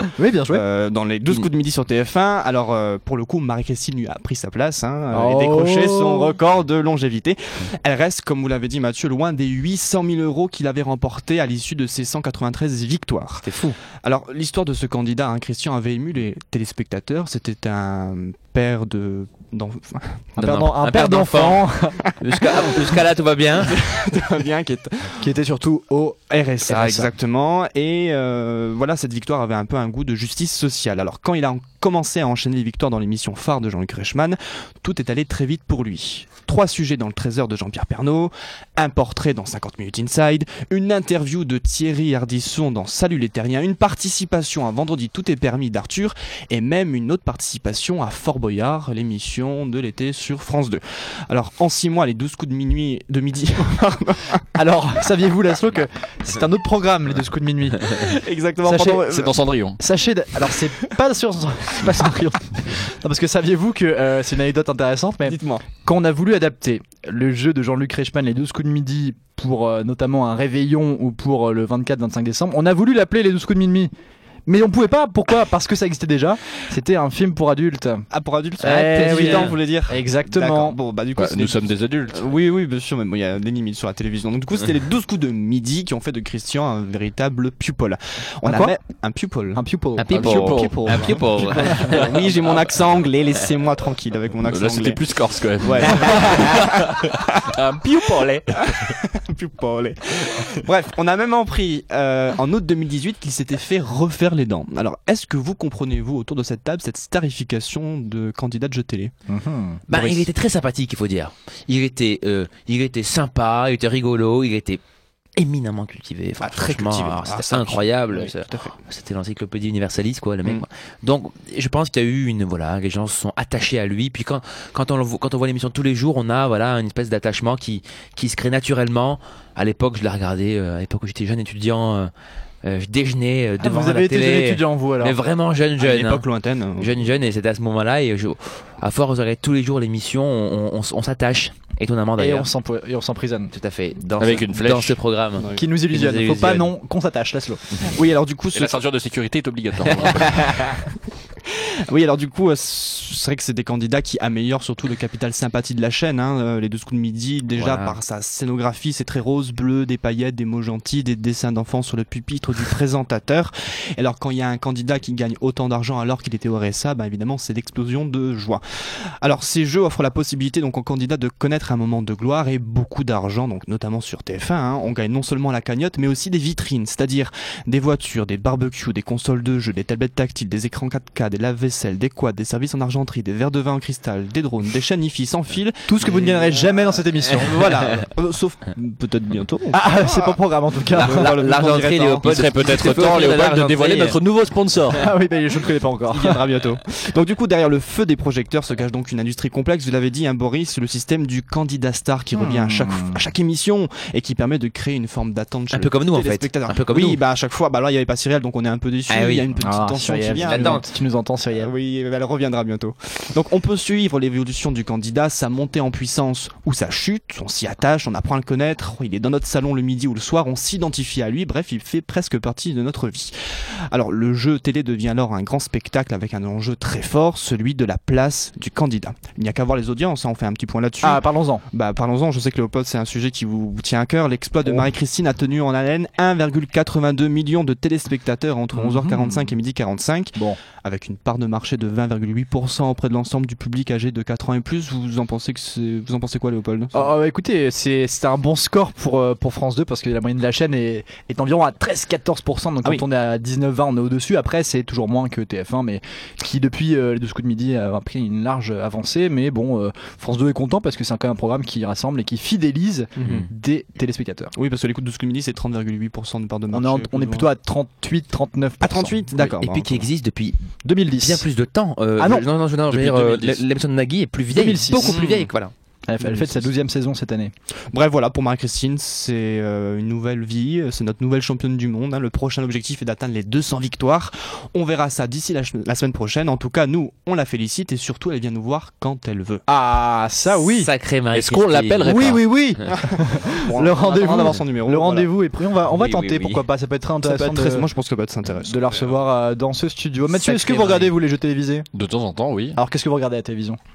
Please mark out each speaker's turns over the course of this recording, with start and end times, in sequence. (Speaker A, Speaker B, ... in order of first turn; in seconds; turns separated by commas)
Speaker A: 0.1-0.6, Speaker B: 0.5-13.5, Speaker A: 5.1-6.4, Speaker C: 13.4-13.8, Speaker B: 14.0-20.3, Speaker A: 20.4-22.1, Speaker C: 20.4-23.8, Speaker B: 23.6-25.3, Speaker A: 25.2-27.1, Speaker B: 26.3-54.4, Speaker A: 54.5-58.1, Speaker B: 57.9-59.4, Speaker A: 58.6-59.1, Speaker D: 59.1-59.8, Speaker A: 59.8-73.9, Speaker B: 65.2-65.6, Speaker A: 74.5-78.0, Speaker B: 78.1-89.6, Speaker C: 78.6-79.5, Speaker A: 78.6-80.8, Speaker D: 81.2-82.2, Speaker A: 88.4-88.7, Speaker A: 89.5-90.4, Speaker C: 90.0-92.1, Speaker D: 90.1-91.3, Speaker B: 90.2-95.0, Speaker D: 91.8-92.3, Speaker D: 94.4-98.9, Speaker B: 95.6-109.1, Speaker A: 109.3-109.8, Speaker C: 109.9-114.8, Speaker B: 109.9-110.3, Speaker C: 115.3-132.1, Speaker B: 116.4-118.8, Speaker C: 132.6-136.2, Speaker A: 133.6-135.2, Speaker B: 135.8-137.0, Speaker C: 136.8-142.5, Speaker A: 142.2-143.5, Speaker C: 143.5-146.7, Speaker D: 144.2-145.0, Speaker B: 145.4-145.6, Speaker A: 145.5-147.6, Speaker B: 147.8-148.8, Speaker D: 148.5-150.7, Speaker C: 150.0-150.8, Speaker B: 151.4-168.6, Speaker C: 157.6-158.0, Speaker B: 169.2-190.4, Speaker A: 185.9-187.8, Speaker A: 189.7-191.3, Speaker B: 190.9-193.0, Speaker C: 190.9-194.2, Speaker D: 192.2-195.1, Speaker A: 194.9-196.4, Speaker B: 196.1-210.8, Speaker A: 202.3-203.2, Speaker C: 205.7-207.2, Speaker C: 209.1-209.4, Speaker A: 209.6-211.7, Speaker C: 210.4-210.8, Speaker B: 211.5-247.1, Speaker A: 231.0-231.6, Speaker A: 238.7-239.5, Speaker A: 246.9-264.5, Speaker B: 263.2-263.5, Speaker B: 264.5-267.5, Speaker A: 266.7-269.5, Speaker B: 268.8-270.1, Speaker C: 269.4-270.6, Speaker A: 270.8-271.4, Speaker C: 271.2-275.7, Speaker A: 272.2-272.4, Speaker D: 272.9-273.6, Speaker A: 274.5-275.2, Speaker B: 275.0-275.5, Speaker A: 276.1-277.5, Speaker B: 276.2-276.7, Speaker B: 277.9-289.6, Speaker A: 289.7-290.9, Speaker C: 290.5-292.4, Speaker D: 291.3-292.5, Speaker A: 292.0-297.9, Speaker B: 293.0-295.3, Speaker C: 295.9-296.6, Speaker B: 297.2-299.1, Speaker A: 298.6-301.9, Speaker C: 300.3-301.1, Speaker D: 301.9-302.8, Speaker A: 302.8-303.8